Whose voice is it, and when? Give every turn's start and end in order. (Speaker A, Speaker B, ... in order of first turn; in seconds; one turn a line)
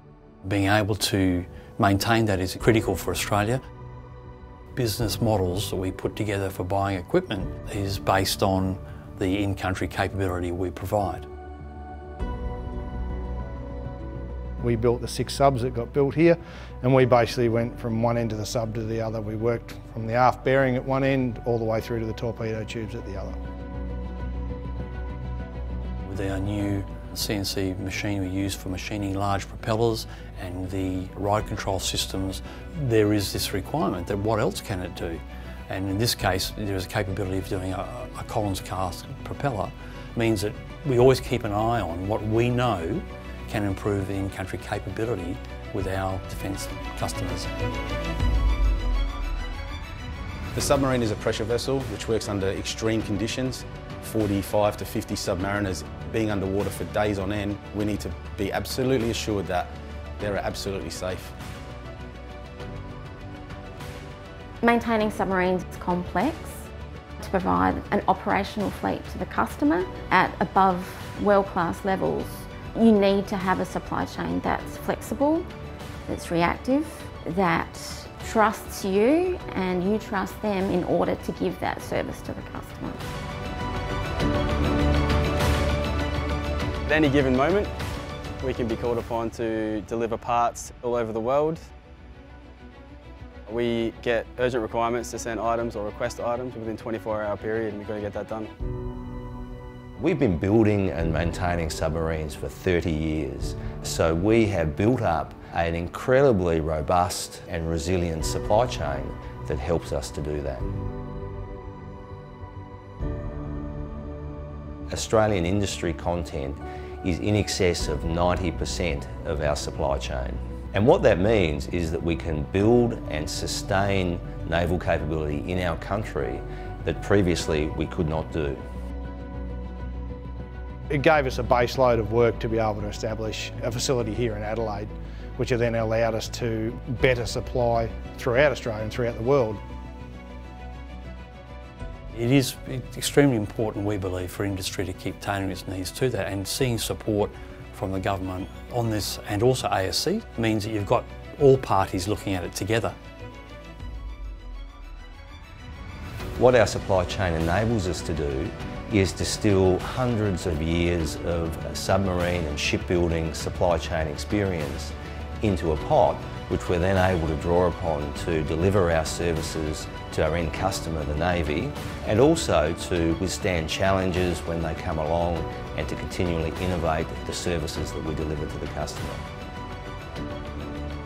Speaker A: 0.4-3.6
Speaker A: 4.7-11.3
Speaker B: 14.6-23.4
Speaker A: 26.0-47.5
Speaker C: 50.5-61.4
Speaker D: 64.6-75.5
Speaker D: 76.1-83.1
Speaker E: 86.8-87.7
Speaker E: 88.4-91.7
Speaker E: 93.5-98.5
Speaker F: 100.0-110.7
Speaker F: 114.9-128.6
Speaker B: 130.9-139.6
Speaker A: 142.1-152.9
Speaker F: 156.4-179.2